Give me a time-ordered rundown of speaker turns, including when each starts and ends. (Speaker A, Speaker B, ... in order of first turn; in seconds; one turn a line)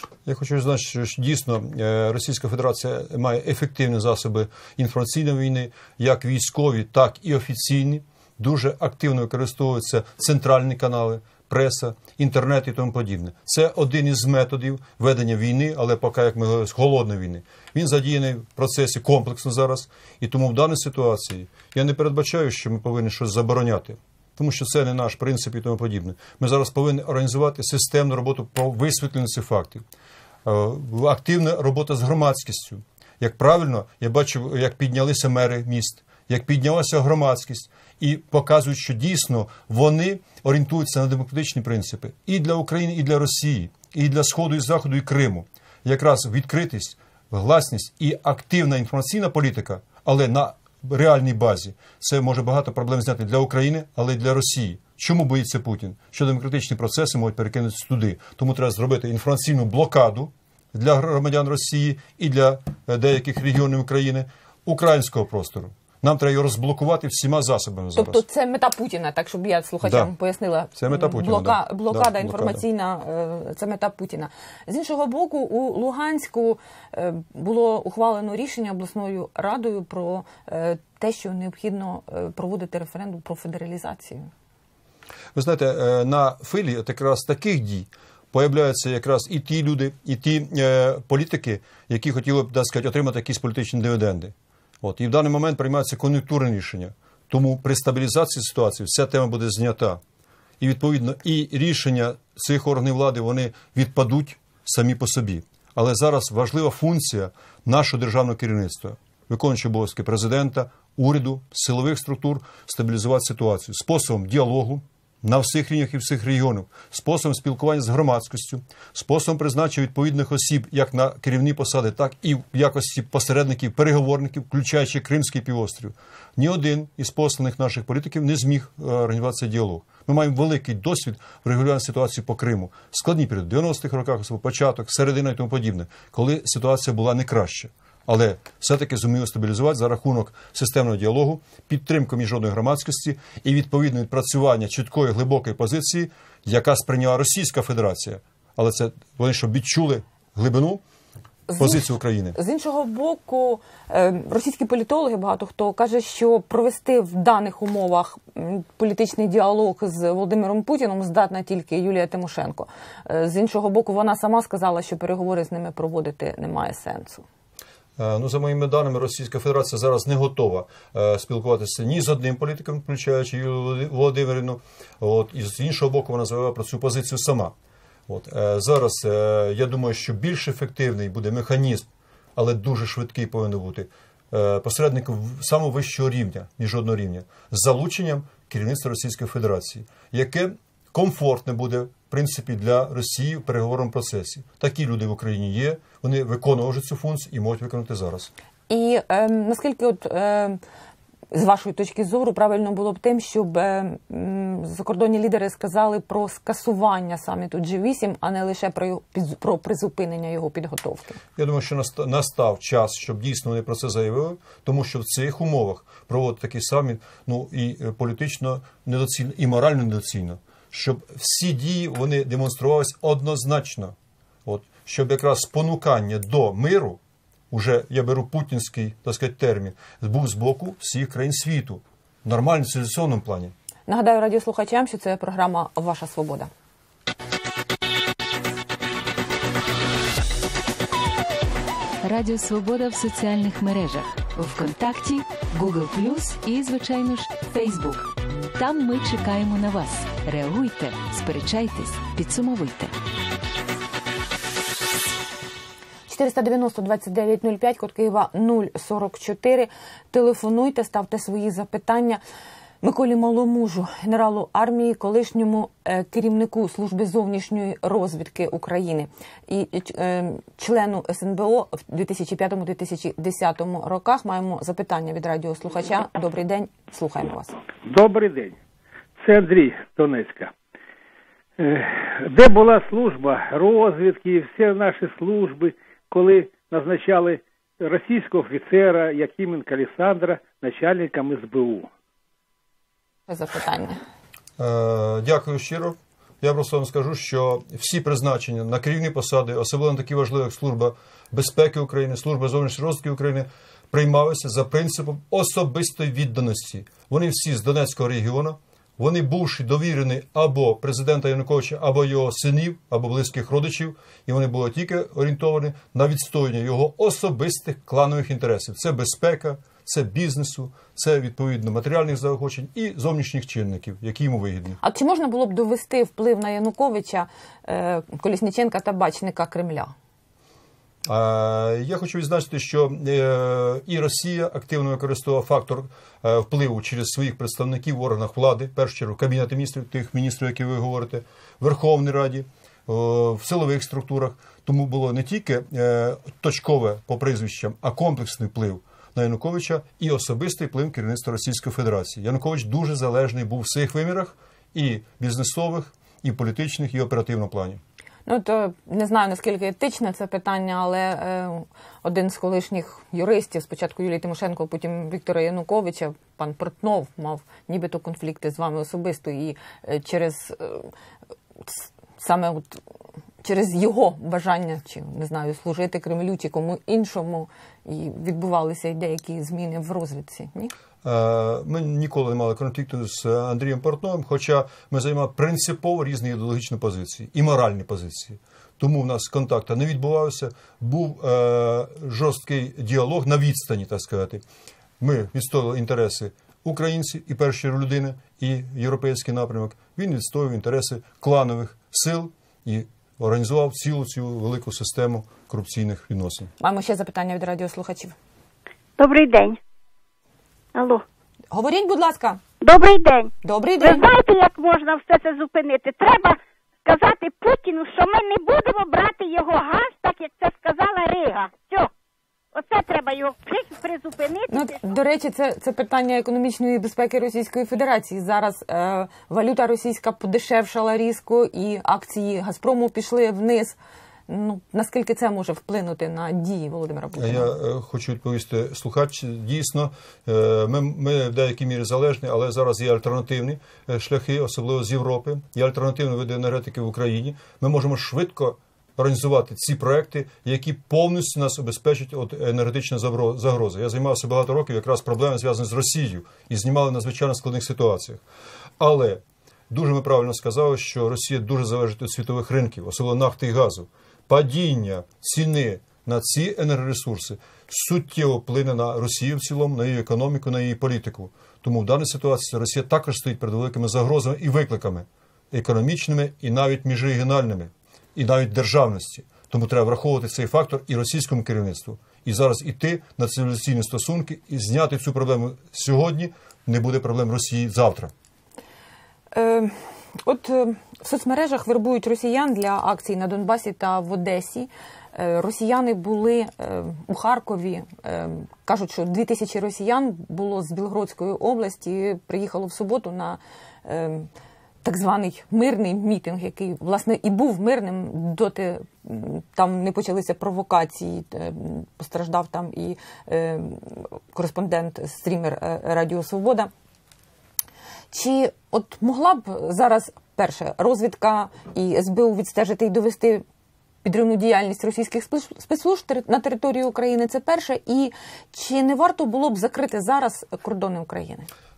Speaker A: 0.2-29.8
Speaker A: 30.4-68.2
Speaker B: 67.9-84.3
Speaker A: 69.8-70.1
Speaker A: 70.8-72.6
Speaker A: 85.3-100.0
Speaker A: 100.6-150.8
Speaker B: 151.5-167.2
Speaker A: 151.6-152.4
Speaker A: 168.0-177.5
Speaker A: 178.1-198.3
Speaker B: 198.7-200.6
Speaker B: 201.3-211.2
Speaker A: 211.3-223.9
Speaker A: 224.4-227.0
Speaker A: 227.5-233.5
Speaker B: 233.9-236.5
Speaker C: 242.0-252.9
Speaker B: 256.1-262.2
Speaker B: 262.8-277.6
Speaker D: 277.8-278.6
Speaker D: 279.2-280.5
Speaker D: 281.6-291.9
Speaker B: 293.3-294.0
Speaker A: 294.6-324.8
Speaker B: 324.8-329.9
Speaker A: 331.1-357.8
Speaker B: 358.2-370.9
Speaker B: 371.6-372.8
Speaker B: 373.4-380.7
Speaker A: 381.0-394.4
Speaker A: 395.0-406.5
Speaker B: 406.6-408.1
Speaker E: 409.0-409.6
Speaker E: 410.7-411.0
Speaker B: 411.5-412.4
Speaker E: 412.6-421.9
Speaker B: 413.4-414.0
Speaker E: 422.5-424.8
Speaker B: 424.5-433.8
Speaker B: 434.3-437.5
Speaker A: 437.1-458.2
Speaker A: 458.8-488.1
Speaker B: 489.3-504.3
Speaker B: 504.8-516.7
Speaker B: 518.1-523.4
Speaker B: 524.0-531.5